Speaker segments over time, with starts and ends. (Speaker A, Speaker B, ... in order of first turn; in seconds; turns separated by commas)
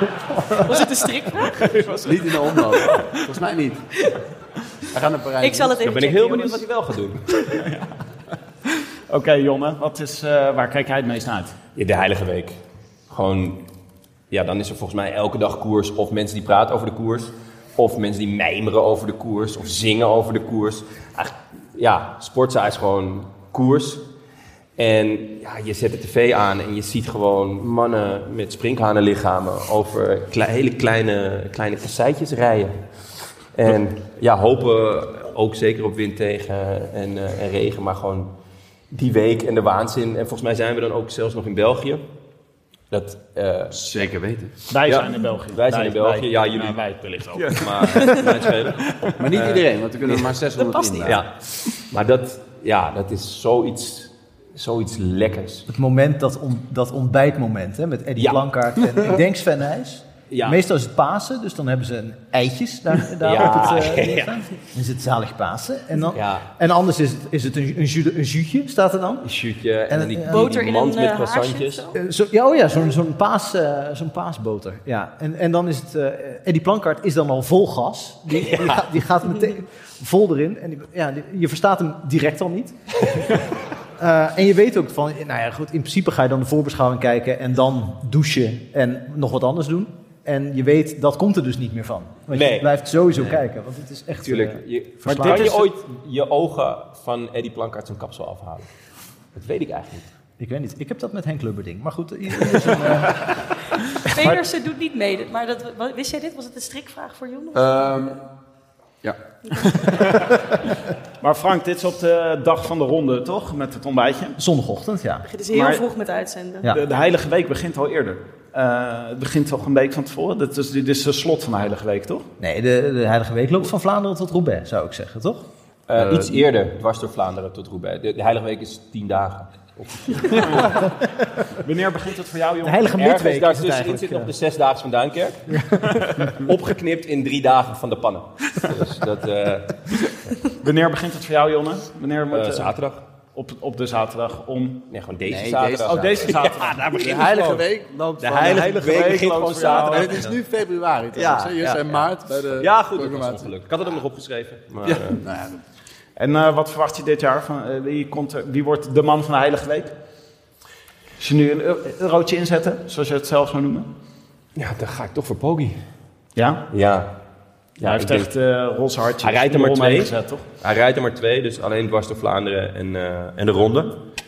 Speaker A: 0.5-2.1, Speaker B: 1.5-2.1, Speaker C: 2.0-3.8, Speaker C: 4.9-5.8, Speaker A: 5.4-6.7, Speaker D: 5.8-7.2, Speaker B: 7.5-7.9, Speaker B: 9.1-11.5, Speaker D: 11.8-12.6, Speaker D: 13.1-13.6, Speaker D: 14.3-24.0, Speaker D: 24.8-32.8, Speaker D: 33.5-38.3, Speaker D: 38.9-42.0, Speaker D: 42.9-43.8, Speaker C: 43.7-44.5, Speaker B: 44.7-48.4, Speaker D: 44.8-46.8, Speaker D: 47.3-50.3, Speaker C: 49.2-51.2, Speaker A: 50.7-51.0, Speaker D: 51.0-55.7, Speaker E: 55.7-69.3, Speaker D: 58.2-58.5, Speaker D: 60.3-60.6, Speaker D: 63.2-64.4, Speaker D: 66.1-66.5, Speaker D: 69.2-71.9, Speaker E: 69.9-70.5, Speaker A: 70.2-71.9, Speaker E: 71.9-82.7, Speaker D: 78.3-78.8, Speaker E: 84.0-95.5, Speaker D: 92.3-93.4, Speaker D: 94.2-98.7, Speaker B: 95.0-95.7, Speaker D: 99.3-100.1, Speaker E: 100.4-103.2, Speaker A: 104.1-107.7, Speaker C: 107.5-108.2, Speaker B: 109.8-110.3, Speaker B: 111.2-114.4, Speaker E: 114.4-115.3, Speaker A: 115.2-116.7, Speaker B: 115.5-115.8, Speaker B: 116.7-122.3, Speaker E: 122.4-125.4, Speaker D: 125.9-130.8, Speaker C: 126.0-126.3, Speaker B: 130.3-130.8, Speaker B: 131.6-132.9, Speaker E: 132.6-134.3, Speaker D: 132.9-135.6, Speaker E: 135.5-136.1, Speaker D: 136.2-140.1, Speaker B: 140.6-142.7, Speaker D: 142.3-143.0, Speaker B: 143.3-144.8, Speaker D: 144.9-147.6, Speaker C: 145.2-146.4, Speaker B: 145.8-147.6, Speaker C: 146.9-149.1, Speaker D: 148.2-150.3, Speaker B: 148.6-150.2, Speaker C: 149.6-153.5, Speaker D: 151.1-155.2, Speaker C: 154.8-155.6, Speaker B: 156.2-159.9, Speaker B: 161.2-163.9, Speaker D: 164.6-165.8, Speaker B: 166.3-166.7, Speaker D: 166.7-167.1, Speaker D: 167.8-168.3, Speaker B: 167.8-170.4, Speaker D: 169.2-174.0